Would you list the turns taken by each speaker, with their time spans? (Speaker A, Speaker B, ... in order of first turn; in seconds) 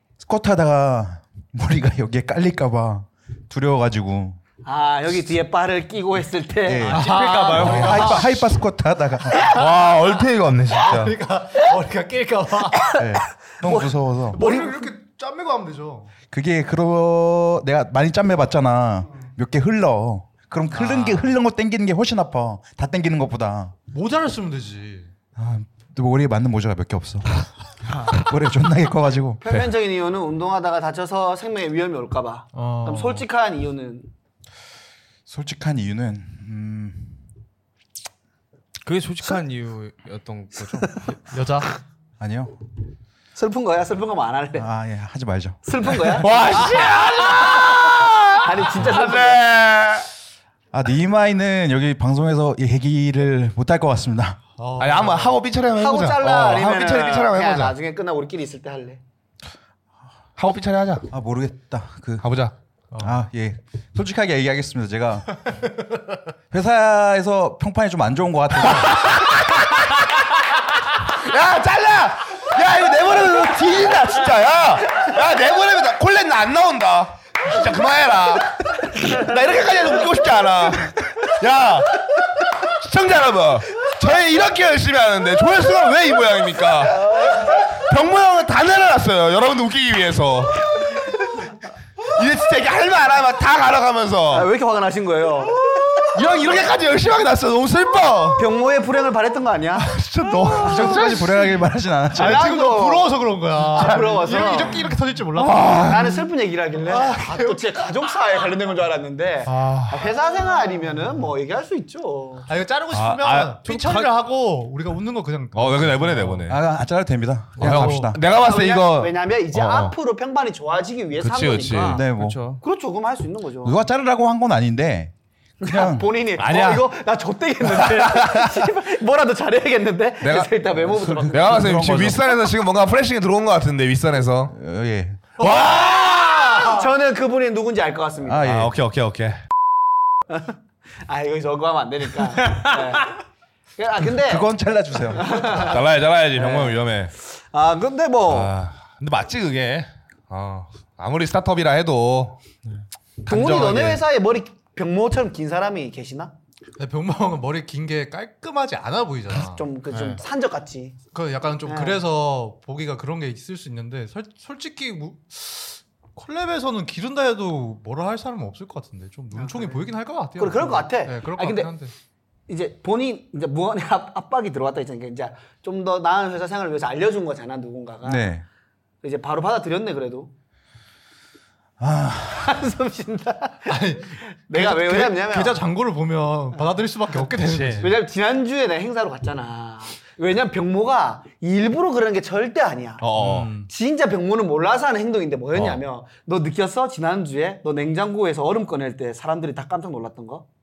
Speaker A: 0.2-4.4, 6.7-9.5, 13.0-14.4, 16.3-23.8, 25.4-27.5, 28.0-29.4, 35.3-37.2, 42.2-42.5, 44.6-46.0, 50.7-54.4, 61.1-62.3, 63.0-65.4, 66.5-69.1, 100.5-102.5, 116.5-118.2, 121.9-122.4, 123.6-126.1, 130.9-132.4, 134.5-135.3, 138.2-138.7, 144.1-145.6, 178.0-178.4, 181.8-182.6
Speaker B: 4.6-8.0, 12.8-14.9, 29.4-34.1, 43.4-44.7, 45.6-46.9, 48.3-49.5, 55.8-59.0, 79.0-80.5, 86.9-87.6, 94.3-95.7, 98.4-100.0, 102.2-104.9, 105.8-112.5, 118.2-122.1, 122.6-123.8, 125.6-131.7, 135.4-138.5, 140.3-143.2, 143.8-144.5, 145.2-145.8, 146.3-148.5, 153.3-156.3, 159.4-161.0, 161.7-162.0, 169.4-169.8, 170.4-171.7, 172.5-178.3, 179.0-180.3, 182.3-185.6, 187.8-193.1, 193.6-200.4
Speaker C: 6.9-8.2, 38.8-41.0, 113.7-114.1, 122.1-122.6, 142.4-143.0, 159.9-160.2
Speaker D: 6.9-8.2, 10.7-12.9, 14.3-16.1, 20.9-21.2, 23.9-25.1, 32.5-33.3, 41.3-41.7, 54.6-55.4, 62.9-63.2, 100.5-101.5, 102.1-105.9, 106.8-107.7, 109.5-109.9, 112.5-116.5, 117.6-118.1, 156.8-159.7, 161.1-171.9, 183.7-187.9, 193.2-193.7
Speaker E: 9.4-11.2, 46.0-50.1, 54.8-57.8, 60.4-61.1, 62.2-62.5, 68.8-69.4, 71.1-91.1, 92.0-94.5, 95.7-98.5, 99.8-101.1, 105.3-106.3, 109.5-110.1, 112.9-113.6, 115.5-116.6, 117.6-119.9, 121.2-122.0, 126.4-126.9, 127.7-128.7, 130.2-130.5, 131.3-134.6, 135.4-136.8, 138.4-139.4, 145.5-147.1, 148.3-152.4, 153.2-154.0, 187.4-187.9, 193.0-193.5, 195.5-195.8